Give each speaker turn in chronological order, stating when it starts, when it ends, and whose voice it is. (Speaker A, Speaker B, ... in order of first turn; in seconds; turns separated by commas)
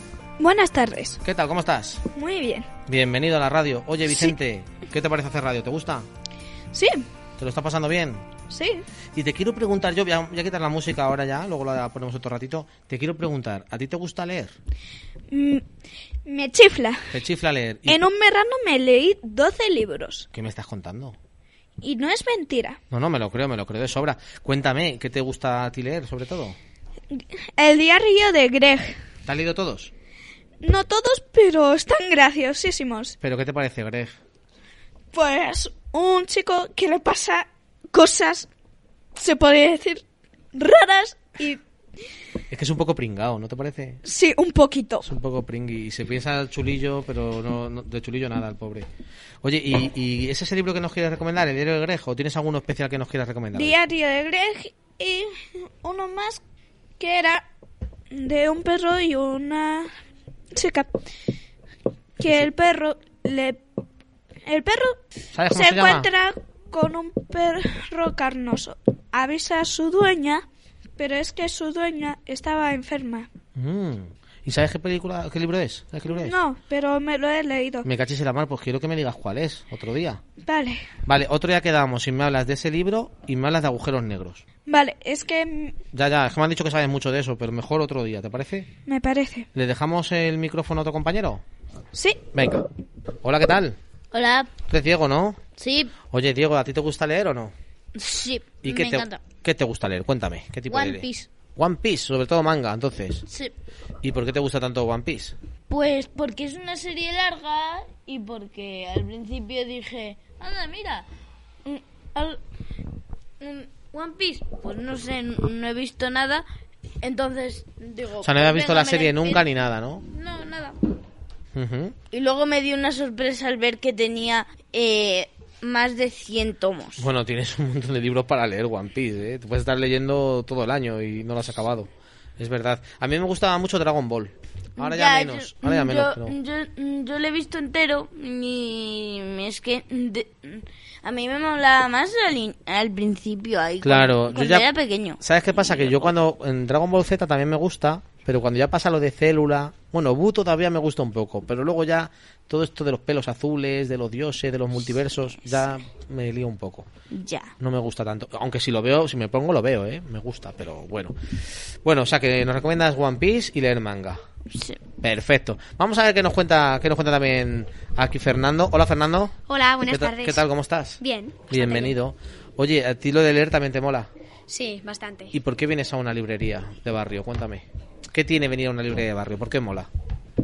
Speaker A: 0.4-1.2, Speaker B: 1.2-2.0, Speaker A: 2.1-2.7, Speaker B: 2.9-6.1, Speaker A: 6.7-7.1, Speaker B: 7.4-8.3, Speaker A: 8.5-8.8, Speaker B: 9.1-14.6, Speaker A: 15.3-15.7, Speaker A: 16.2-17.2, Speaker B: 17.1-18.0, Speaker A: 17.9-20.3, Speaker B: 20.3-21.2, Speaker A: 21.8-22.8, Speaker B: 22.9-26.6, Speaker A: 27.1-29.0, Speaker B: 29.2-29.9, Speaker A: 30.6-33.2, Speaker B: 33.2-34.2, Speaker A: 35.1-38.5, Speaker A: 39.1-41.6, Speaker B: 42.5-44.0, Speaker A: 44.0-45.1, Speaker B: 45.0-48.9, Speaker B: 49.4-53.8, Speaker A: 53.5-56.4, Speaker A: 57.0-57.5, Speaker A: 58.1-59.9, Speaker A: 60.5-60.9, Speaker A: 62.2-63.6, Speaker B: 62.2-62.5, Speaker A: 64.5-70.5, Speaker B: 65.3-66.1, Speaker A: 71.0-73.3, Speaker B: 73.5-76.4, Speaker A: 76.1-77.9, Speaker B: 77.8-80.2, Speaker A: 80.5-80.8, Speaker B: 81.0-84.4, Speaker A: 84.7-85.8, Speaker B: 85.9-88.7, Speaker A: 88.9-89.5, Speaker B: 89.5-91.4, Speaker A: 91.9-92.2, Speaker B: 92.3-92.7, Speaker B: 93.2-93.8, Speaker C: 94.1-94.5, Speaker B: 94.7-95.4, Speaker C: 95.6-95.9, Speaker B: 96.1-97.5, Speaker C: 98.0-99.2, Speaker B: 98.6-103.3, Speaker C: 100.7-101.3, Speaker B: 104.0-105.3, Speaker C: 105.7-111.1, Speaker C: 111.7-112.4, Speaker C: 113.4-116.5, Speaker C: 117.0-119.5, Speaker B: 118.2-120.0, Speaker C: 120.1-120.8, Speaker B: 121.5-122.0, Speaker C: 122.1-127.1, Speaker B: 127.0-136.4, Speaker C: 134.8-145.2, Speaker B: 143.8-144.7, Speaker B: 145.2-156.9, Speaker C: 157.1-157.5, Speaker B: 157.6-164.2, Speaker C: 164.5-164.8, Speaker B: 165.0-171.0, Speaker D: 169.5-170.4, Speaker D: 171.0-171.9, Speaker B: 171.5-174.1, Speaker D: 174.5-175.3, Speaker B: 175.3-179.9